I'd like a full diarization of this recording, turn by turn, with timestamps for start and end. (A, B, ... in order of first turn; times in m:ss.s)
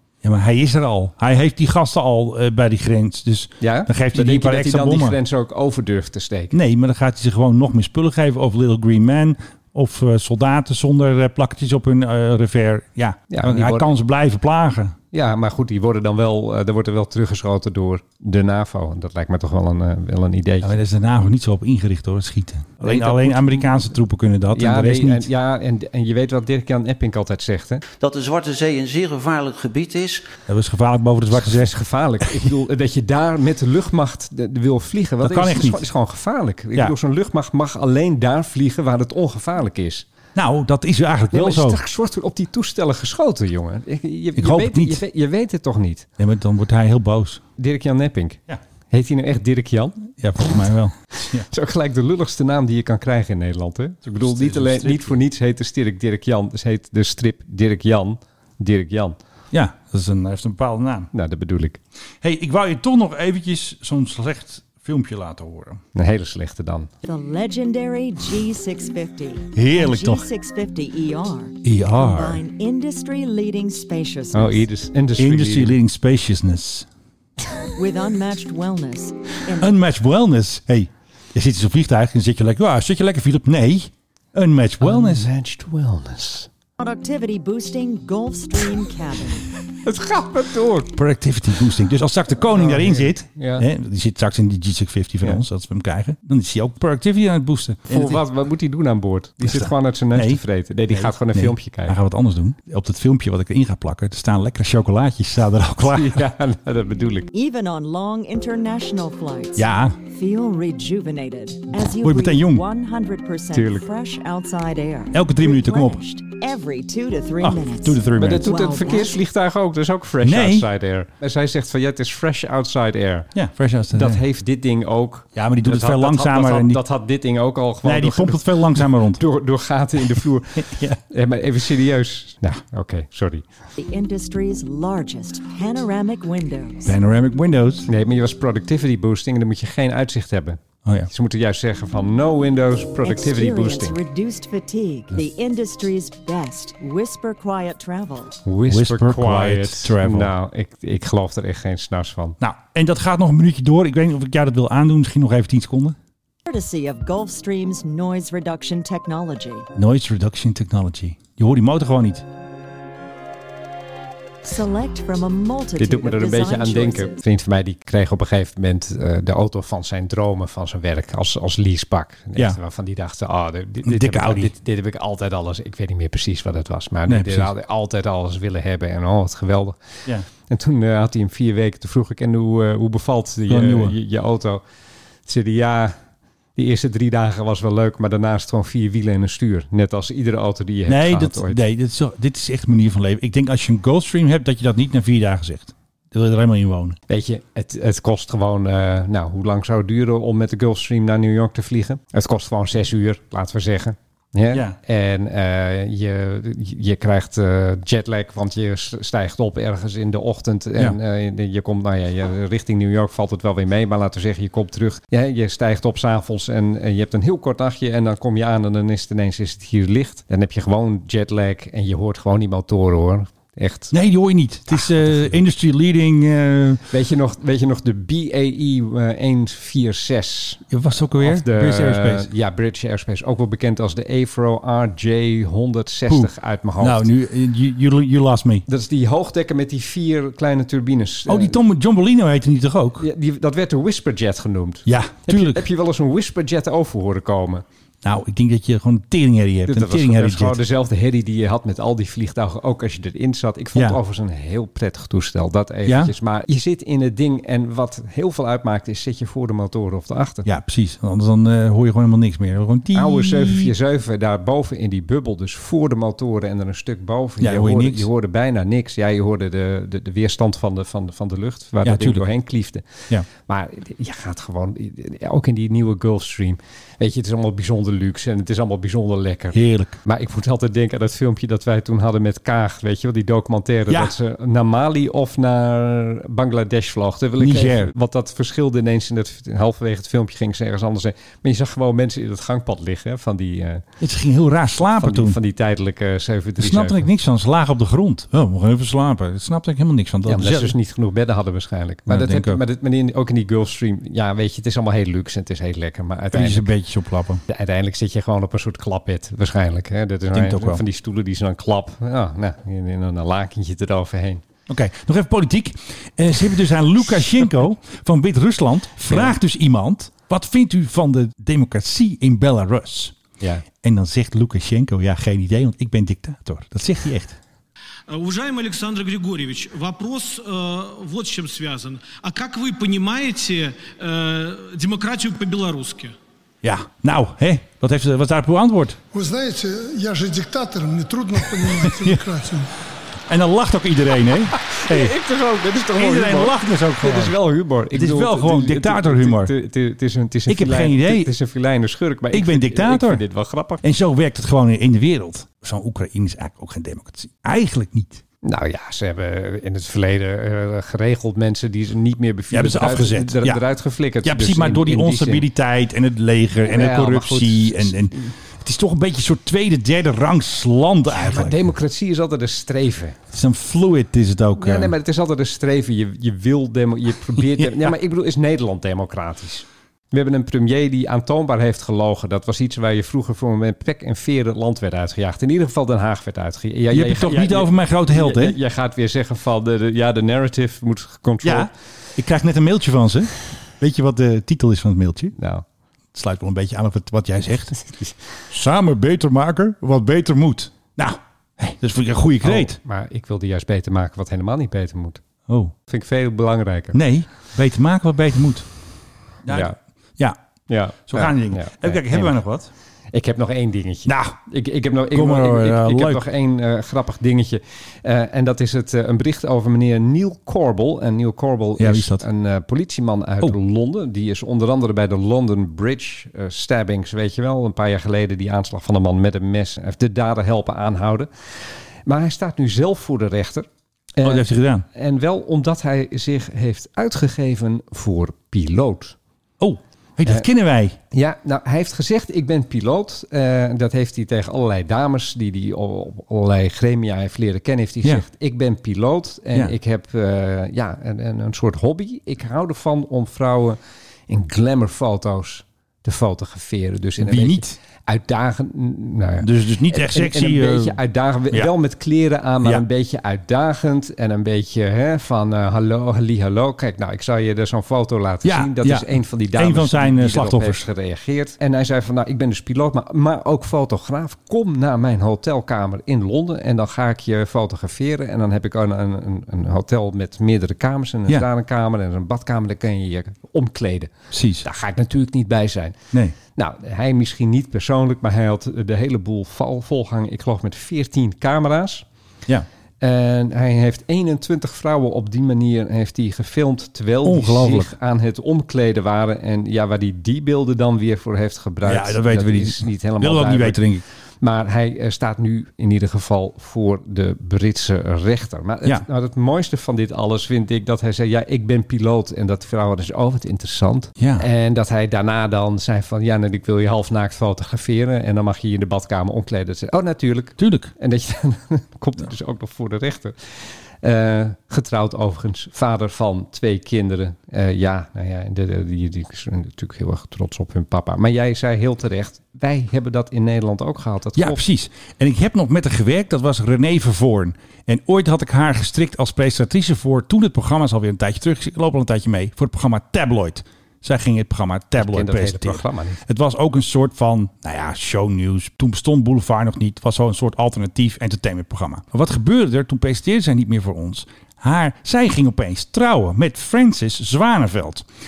0:00.2-0:05.2 A
0:03.6-0:06.6 B
0:06.5-0:15.0 A
0:13.3-0:13.9 B
0:15.1-0:20.8 B
0:20.6-0:25.3 A
0:22.8-0:23.8 B
0:24.6-0:27.8 B
0:28.0-0:30.3 C
0:30.5-0:31.8 A
0:31.4-0:40.1 B
0:35.2-0:35.9 A
0:40.4-0:41.8 A
0:41.3-0:46.1 B
0:44.4-0:45.0 A
0:46.2-0:47.4 A
0:47.6-0:50.0 B
0:50.2-0:51.5 A
0:51.4-0:59.2 B
0:54.1-0:55.2 A
0:59.5-1:01.1 A
1:01.1-1:01.8 B
1:02.2-1:05.8 A
1:06.0-1:06.9 B
1:07.0-1:14.6 D
1:09.6-1:10.3 A
1:11.6-1:12.4 A
1:14.3-1:15.8 B
1:15.2-1:16.9 A
1:17.8-1:19.7 D
1:19.6-1:25.3 A
1:24.8-1:26.5 B
1:26.8-1:29.5 D
1:29.8-1:30.9 B
1:30.9-1:38.2 A
1:32.4-1:33.7 B
1:37.9-1:42.0 B
1:39.4-1:46.2 A
1:45.8-1:47.3 B
1:47.3-1:59.2 D
1:49.6-1:50.0 A
1:52.0-1:52.6 A
1:53.5-1:53.8 B
1:55.1-1:56.0 A
1:57.4-1:58.5 A
1:58.2-2:03.3 B
2:00.2-2:00.7 A
2:03.4-2:04.2 A
2:03.9-2:13.4 B
2:05.4-2:06.8 A
2:07.8-2:09.2 A
2:13.8-2:16.9 D
2:16.8-2:17.9 A
2:17.9-2:24.0 B
2:20.8-2:21.1 A
2:23.0-2:28.4 D
2:28.4-2:32.4 B
2:28.7-2:30.3 A
2:32.4-2:36.0 A
2:36.5-2:39.7 D
2:39.8-2:42.2 A
2:44.4-2:47.2 D
2:45.8-2:59.8 B
2:53.8-2:54.5 A
2:57.1-2:57.5 A
3:00.5-3:04.6 B
3:03.5-3:04.0 A
3:05.3-3:06.0 B
3:06.6-3:11.6 B
3:10.9-3:17.0 A
3:17.1-3:43.9 B
3:24.5-3:24.8 A
3:43.9-3:46.9 A
3:44.8-3:45.2 B
3:46.9-3:50.7 B
3:50.7-3:52.3 A
3:51.2-3:57.1 B
3:56.1-3:58.6 A
3:58.7-4:01.6 B
4:01.3-4:03.1 A
4:03.0-4:07.6 B
4:04.9-4:05.7 A
4:08.0-4:10.6 A
4:09.7-4:20.5 B
4:15.9-4:16.1 A
4:20.4-4:23.7 A
4:22.9-4:53.8 B
4:27.4-4:28.1 A
4:31.8-4:32.2 A
4:39.5-4:40.0 A
4:43.9-4:44.2 A
4:47.4-4:47.9 A
4:54.0-4:55.4 A
4:55.0-4:57.1 B
4:56.6-5:00.8 A
5:00.3-5:06.7 B
5:02.1-5:02.6 A
5:06.3-5:07.4 A
5:07.5-5:14.4 B
5:10.3-5:10.8 A
5:14.7-5:23.2 A
5:19.1-5:19.3 B
5:23.4-5:23.6 B
5:23.8-5:27.4 A
5:28.1-5:36.2 E
5:36.6-5:39.0 A
5:39.1-5:42.7 F
5:41.6-5:42.2 A
5:43.3-5:45.2 A
5:44.6-5:53.8 B
5:46.0-5:47.4 A
5:47.9-5:49.5 A
5:50.5-5:51.3 A
5:52.3-5:53.2 A
5:53.8-5:58.2 A
5:58.4-6:05.5 B
6:02.5-6:03.6 A
6:04.2-6:11.6 A
6:06.7-6:08.3 B
6:11.1-6:13.2 B
6:13.3-6:14.9 A
6:14.6-6:31.7 B
6:26.9-6:28.6 A
6:31.4-6:35.3 A
6:35.4-6:35.6 B
6:36.1-6:37.8 A
6:38.5-6:42.8 A
6:42.4-6:45.2 B
6:45.5-6:45.7 A
6:45.9-6:47.0 B
6:46.9-6:48.7 A
6:49.4-6:50.4 A
6:49.5-6:49.8 B
6:50.7-6:52.4 B
6:51.1-6:52.7 A
6:53.1-7:11.3 B
6:54.1-6:54.4 A
6:55.1-6:56.2 A
7:01.8-7:02.2 A
7:12.1-7:19.2 B
7:14.2-7:14.8 A
7:19.6-7:21.0 A
7:21.1-8:06.0 B
7:37.2-7:37.8 A
7:39.4-7:41.0 A
7:48.4-7:50.9 A
8:04.3-8:04.7 A
8:06.6-8:12.0 B
8:13.0-8:23.8 B
8:17.2-8:17.9 A
8:21.8-8:24.0 A
8:24.4-8:43.4 B
8:34.2-8:34.4 A
8:40.6-8:40.9 A
8:44.0-8:54.6 B
8:54.4-9:18.1 A
9:05.0-9:06.2 B